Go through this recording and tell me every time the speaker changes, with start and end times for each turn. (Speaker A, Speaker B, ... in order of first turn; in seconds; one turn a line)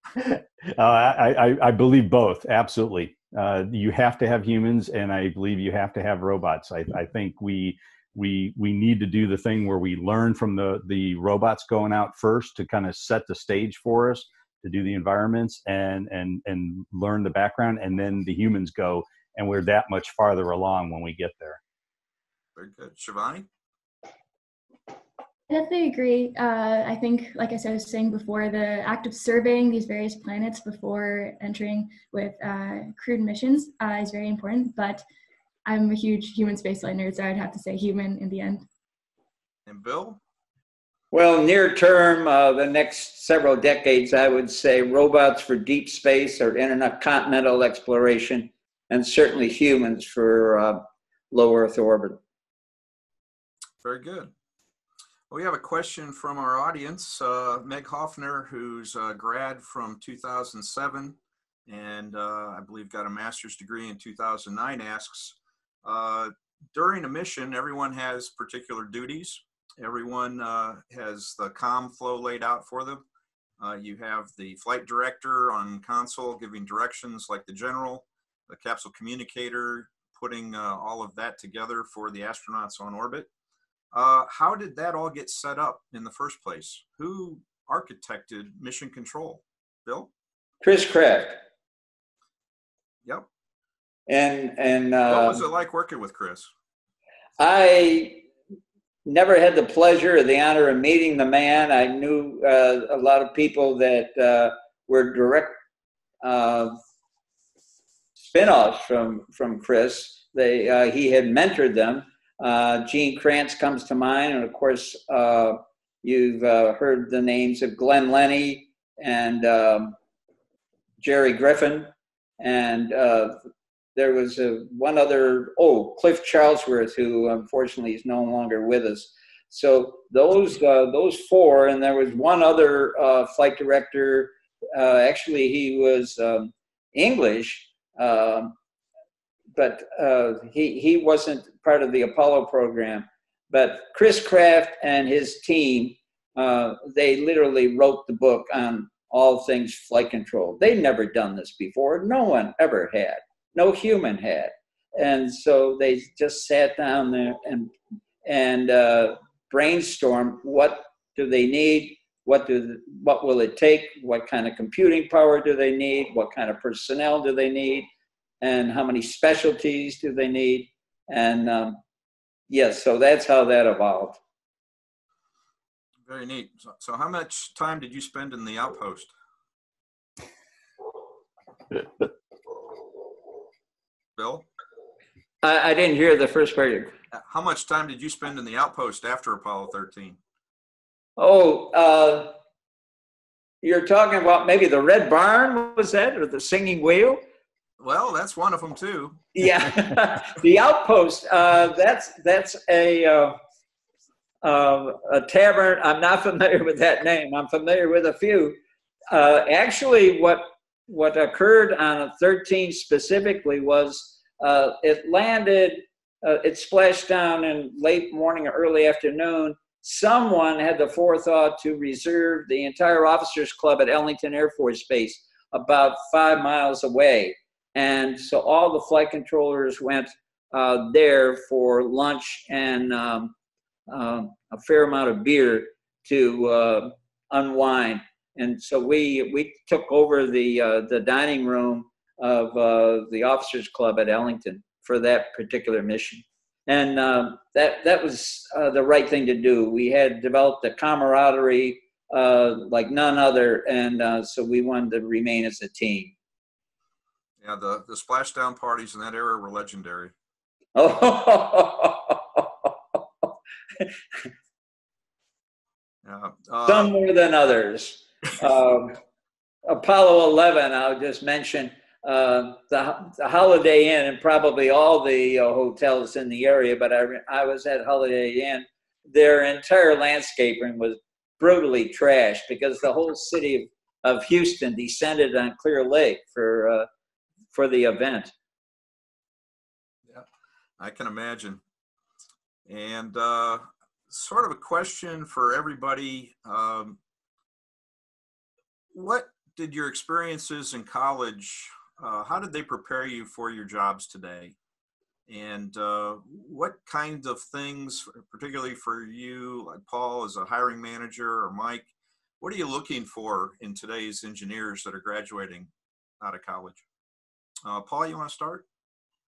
Speaker A: 0.1-21.6
Speaker B: 22.6-23.4
Speaker C: 25.5-35.0
Speaker C: 35.6-38.6
Speaker B: 39.7-40.2
Speaker D: 41.1-52.2
Speaker B: 53.8-54.3
Speaker B: 55.3-73.0
Speaker B: 73.6-83.3
Speaker B: 83.9-90.1
Speaker D: 90.6-91.4
Speaker D: 94.1-95.4
Speaker B: 95.1-96.5
Speaker D: 97.4-98.2
Speaker D: 99.0-105.6
Speaker D: 106.2-106.8
Speaker D: 108.2-120.0
Speaker D: 121.0-123.4
Speaker D: 124.0-138.5
Speaker D: 139.5-167.9
Speaker D: 168.4-171.8
Speaker D: 172.5-174.2
Speaker B: 176.1-179.1
Speaker B: 184.2-184.5
Speaker D: 185.4-186.9
Speaker B: 187.1-190.2
Speaker D: 191.2-192.3
Speaker D: 193.6-197.2
Speaker B: 197.8-199.3
Speaker D: 199.3-203.4
Speaker D: 204.4-208.6
Speaker D: 209.1-233.3
Speaker D: 233.9-256.1
Speaker B: 257.4-260.1
Speaker D: 260.8-262.7
Speaker B: 266.0-266.9
Speaker D: 266.6-269.0
Speaker D: 269.7-286.9
Speaker D: 287.5-288.3
Speaker B: 290.8-291.6
Speaker B: 292.7-297.0
Speaker B: 298.9-304.6
Speaker B: 305.3-311.9
Speaker B: 312.4-315.7
Speaker B: 316.2-316.8
Speaker B: 317.6-318.6